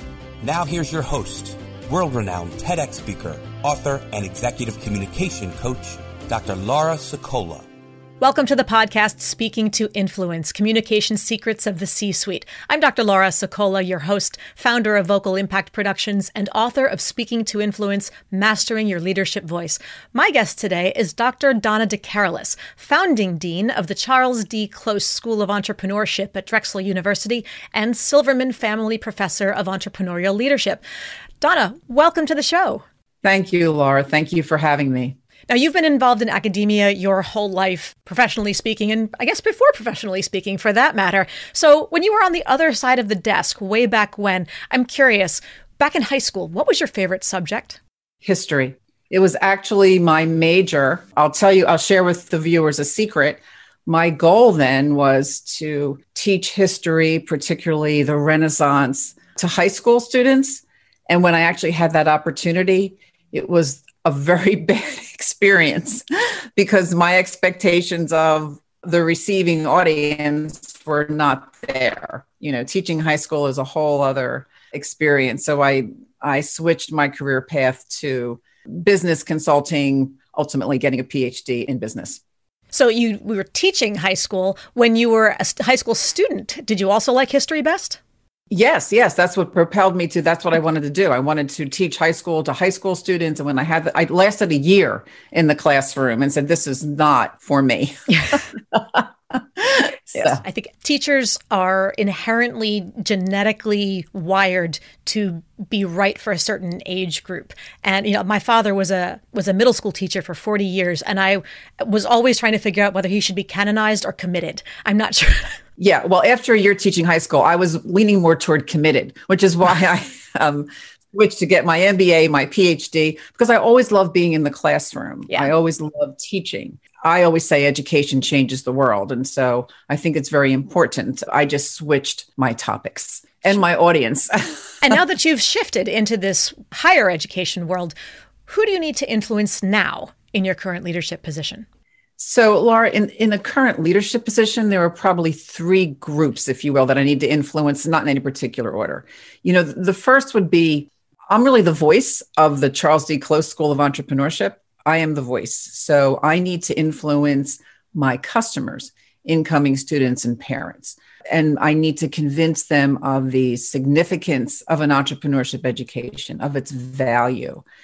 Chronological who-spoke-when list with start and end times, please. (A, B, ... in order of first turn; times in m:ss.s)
0:00.4-0:07.6 A
0:08.2-0:30.8 B
0:31.4-0:32.8 B
0:33.2-0:35.2 C
0:35.5-0:47.8 B
0:48.2-1:22.2 C
1:22.7-1:28.0 B
1:28.5-1:40.4 C
1:40.1-1:55.5 B
1:55.8-2:14.9 C
2:14.8-2:17.9 B
2:18.5-2:21.6 B
2:22.2-2:47.6 C